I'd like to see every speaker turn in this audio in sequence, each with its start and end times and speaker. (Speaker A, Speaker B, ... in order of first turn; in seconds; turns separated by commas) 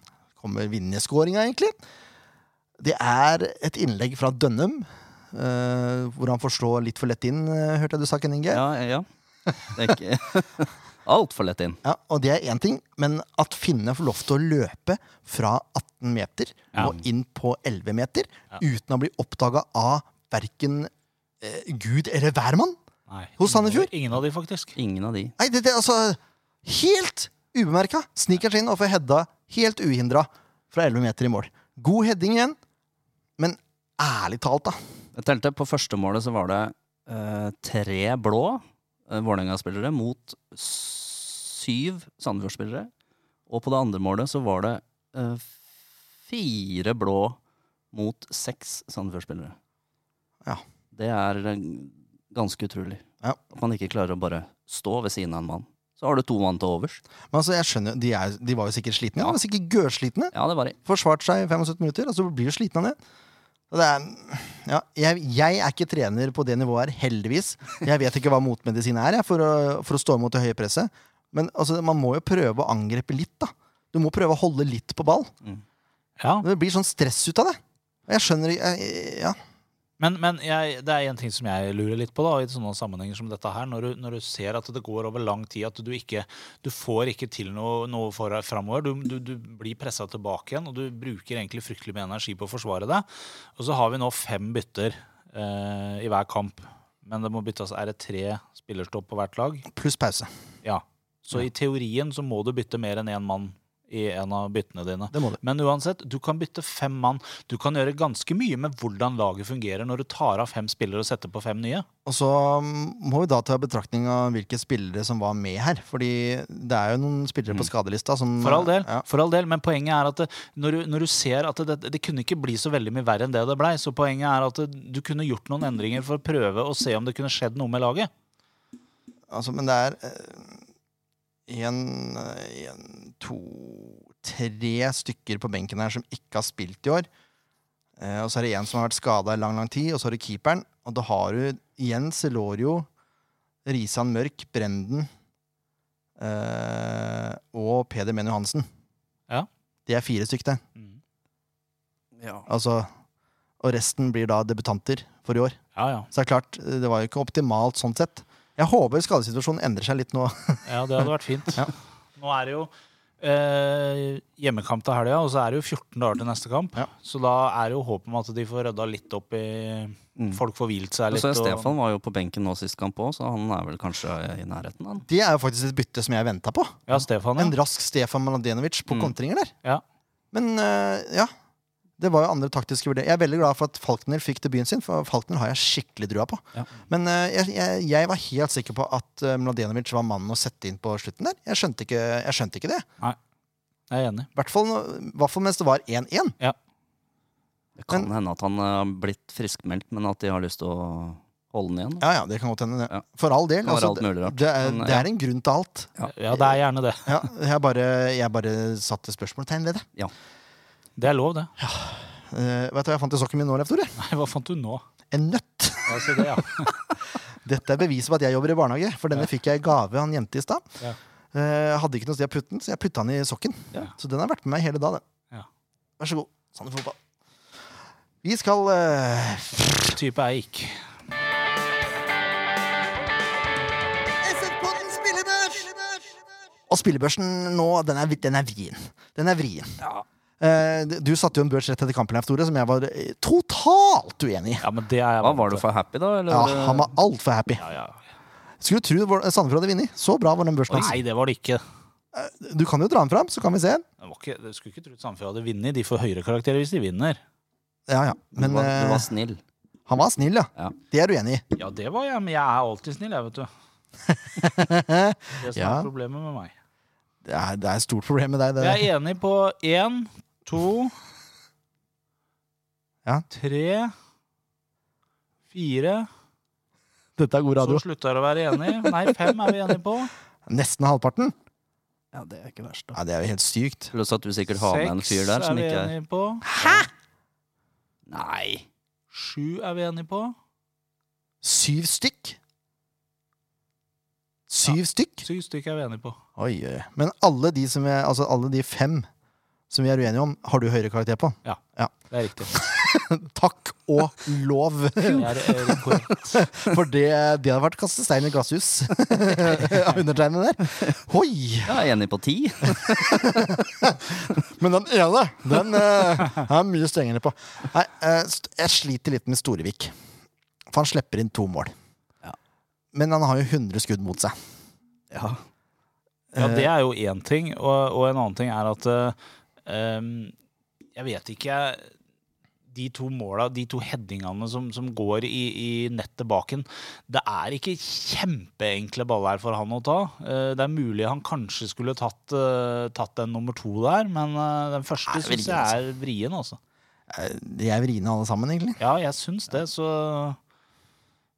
Speaker A: 0.4-1.7, Speaker A: 2.8-8.6, Speaker B: 8.5-9.1, Speaker B: 9.7-11.8, Speaker A: 11.8-22.8, Speaker C: 23.1-24.8, Speaker A: 23.4-23.9, Speaker B: 24.8-25.3, Speaker A: 25.4-32.6, Speaker A: 33.4-34.8, Speaker B: 35.1-42.9, Speaker B: 43.5-45.5, Speaker B: 46.3-47.4, Speaker B: 47.9-49.5, Speaker B: 50.9-57.0, Speaker A: 57.3-60.3, Speaker B: 60.3-60.8, Speaker A: 60.8-63.0, Speaker A: 63.7-75.3, Speaker C: 76.2-76.5, Speaker A: 76.4-79.4, Speaker C: 80.0-99.6, Speaker A: 99.7-100.3, Speaker C: 100.6-111.8, Speaker A: 105.1-105.4, Speaker A: 112.0-119.0, Speaker C: 118.4-128.1, Speaker A: 129.3-130.6, Speaker A: 131.5-137.1, Speaker A: 138.0-142.9, Speaker A: 143.6-145.1, Speaker A: 146.2-148.7, Speaker A: 149.9-150.6, Speaker B: 152.2-152.4, Speaker A: 152.5-152.9, Speaker A: 153.6-155.6, Speaker C: 155.7-156.1, Speaker A: 156.1-160.6, Speaker C: 160.6-171.7, Speaker B: 170.2-170.4, Speaker B: 171.1-175.1, Speaker A: 175.1-179.5, Speaker C: 176.9-177.5, Speaker A: 180.3-181.3, Speaker A: 182.0-192.8, Speaker C: 193.9-194.3, Speaker A: 194.3-196.3, Speaker B: 197.8-202.1, Speaker A: 202.0-206.5, Speaker B: 203.6-205.1, Speaker C: 206.1-207.2, Speaker A: 207.1-209.8, Speaker C: 211.0-211.5, Speaker A: 211.6-213.9, Speaker C: 214.0-214.8, Speaker A: 215.1-216.4, Speaker C: 215.9-216.7, Speaker A: 217.4-220.7, Speaker A: 221.3-225.0, Speaker A: 226.0-227.0, Speaker A: 228.2-230.0, Speaker C: 229.9-230.8, Speaker A: 234.2-236.0, Speaker A: 236.7-239.8, Speaker A: 240.4-244.6, Speaker C: 244.6-245.6, Speaker B: 245.2-246.9, Speaker A: 246.3-247.6, Speaker C: 247.6-248.0, Speaker A: 248.6-251.0, Speaker C: 250.7-251.6, Speaker A: 252.1-253.8, Speaker C: 254.0-257.2, Speaker A: 257.9-259.1, Speaker B: 258.3-259.4, Speaker A: 259.9-261.4, Speaker C: 261.6-263.5, Speaker A: 264.3-265.9, Speaker C: 265.4-266.5, Speaker A: 267.2-268.9, Speaker C: 268.6-270.9, Speaker C: 273.3-273.9, Speaker C: 275.5-276.1, Speaker A: 277.2-277.8, Speaker C: 277.6-280.1, Speaker A: 280.5-281.3, Speaker B: 282.1-283.0, Speaker A: 282.9-283.9, Speaker B: 283.9-285.9, Speaker C: 284.6-286.7, Speaker A: 286.4-286.9, Speaker B: 288.1-288.6, Speaker C: 289.1-290.3, Speaker A: 291.4-292.4, Speaker A: 294.5-295.2, Speaker C: 294.7-296.2, Speaker A: 296.4-299.1, Speaker A: 299.7-301.9, Speaker C: 301.4-302.5, Speaker A: 302.5-311.8, Speaker C: 305.0-306.4, Speaker B: 311.6-313.6, Speaker A: 312.7-319.9, Speaker A: 320.7-321.7, Speaker A: 322.9-324.3, Speaker B: 325.1-325.4, Speaker A: 326.3-326.7, Speaker C: 326.4-330.3, Speaker C: 330.9-331.9, Speaker C: 332.7-346.6, Speaker A: 345.1-345.7, Speaker A: 347.1-348.8, Speaker C: 348.8-350.4